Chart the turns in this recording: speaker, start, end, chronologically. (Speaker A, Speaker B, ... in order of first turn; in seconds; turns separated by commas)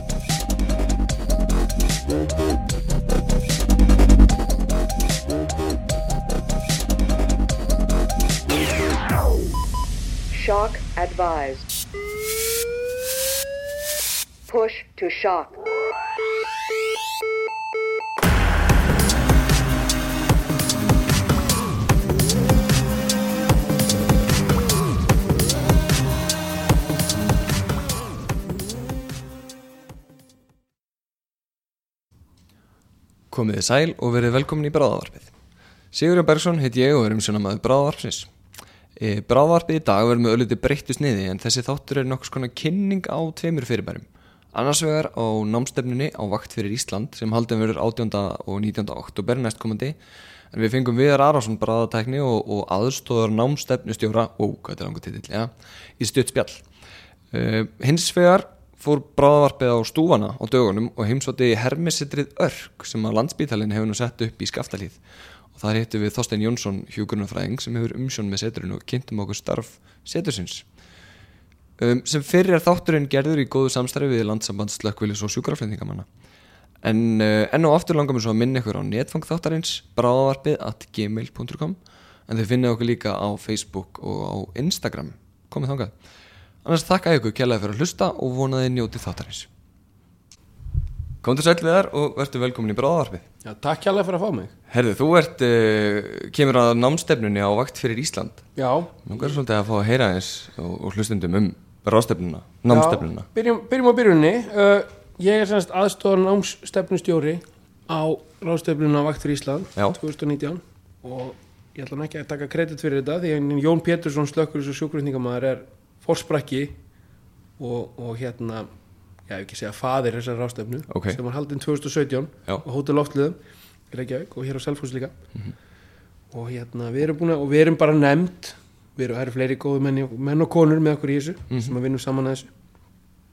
Speaker A: 10.3-11.7, Speaker A: 14.5-15.6, Speaker B: 33.3-35.3, Speaker B: 35.9-38.3, Speaker B: 39.0-50.0, Speaker B: 50.5-56.6, Speaker B: 57.3-65.0, Speaker B: 65.5-70.7, Speaker B: 71.8-76.1, Speaker B: 76.8-85.9, Speaker B: 86.6-89.5, Speaker B: 91.2-93.3, Speaker C: 93.4-94.5, Speaker B: 94.7-98.4, Speaker C: 98.5-99.4, Speaker B: 99.0-103.2, Speaker C: 102.7-116.7, Speaker C: 117.6-118.7, Speaker C: 119.3-123.4, Speaker B: 120.9-121.2, Speaker C: 123.9-125.1, Speaker C: 126.3-132.5, Speaker B: 131.5-131.8